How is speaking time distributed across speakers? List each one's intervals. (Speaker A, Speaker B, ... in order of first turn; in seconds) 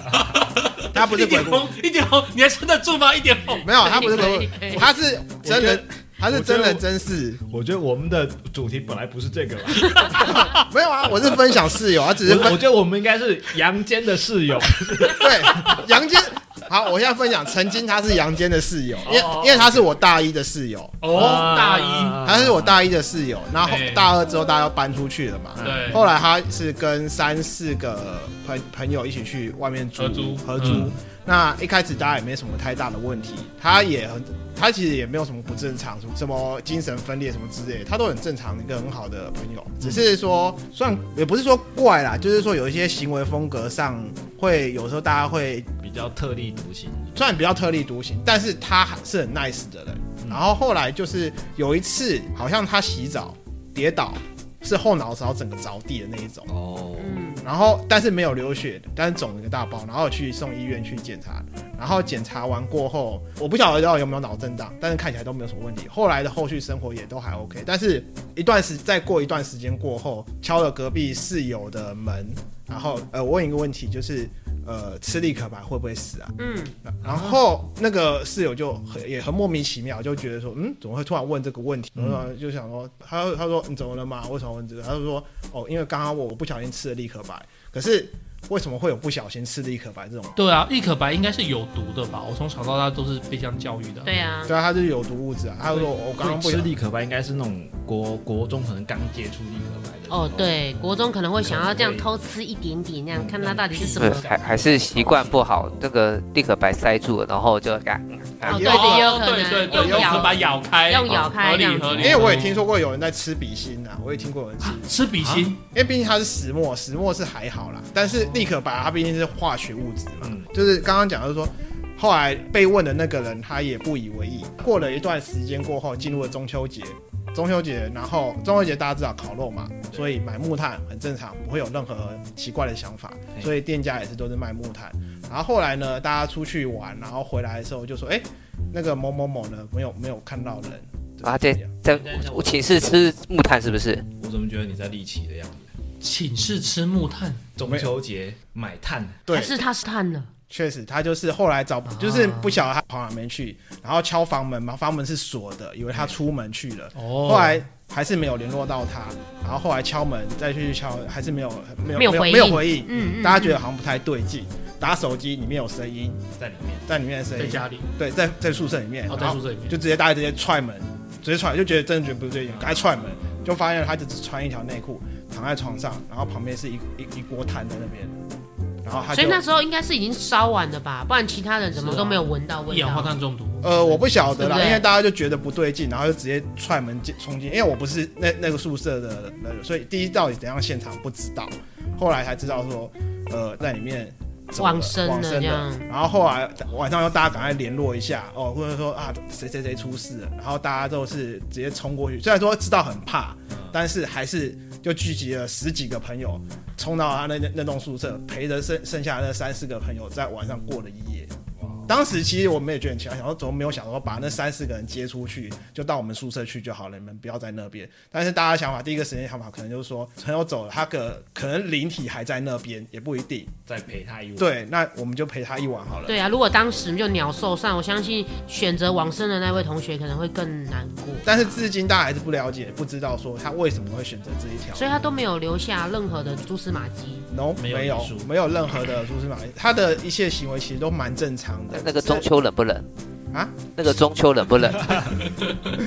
Speaker A: 0.1-4.3, 9.8-10.7, 21.0-22.2, 23.6-24.2, 25.6-26.1, 30.0-30.9, 90.3-94.1, 108.5-112.6, 114.6-115.6, 146.0-147.4, 151.9-152.6, 157.0-157.7, 167.3-167.9, 169.1-169.8, 181.8-184.4, 245.4-245.8
Speaker B: 0.9-1.7, 3.6-7.4, 10.2-12.6, 15.2-21.6, 22.2-45.8, 47.1-56.5, 57.4-76.3, 76.9-90.3, 94.5-96.7, 108.5-110.5, 112.0-114.9, 115.7-141.7, 149.3-149.6, 150.5-166.2, 166.9-178.1, 178.8-179.4, 183.6-211.3, 211.9-223.5, 224.4-226.2, 231.2-235.0, 237.3-242.3, 243.3-243.7
Speaker C: 3.7-4.9, 57.0-57.5, 76.4-76.8, 94.0-94.5, 100.1-104.3, 108.5-112.2, 149.3-150.3, 162.0-163.6, 179.1-183.1, 184.3-184.9, 194.6-195.9, 226.1-231.6, 234.8-237.3
Speaker D: 5.4-6.8, 7.4-10.4, 12.2-15.7, 19.1-19.9, 21.1-22.9, 25.6-26.0, 30.6-30.9, 45.8-47.2, 56.5-57.2, 82.0-82.2, 95.6-100.6, 101.4-102.1, 103.1-105.9, 111.1-112.5, 115.2-115.5, 120.2-120.5, 141.9-143.2, 144.2-145.7, 147.6-149.2, 166.4-166.9, 172.5-173.1, 211.6-211.9, 223.7-224.6, 237.6-238.3
Speaker E: 104.0-108.9, 141.2-144.1, 241.7-242.9, 243.7-245.0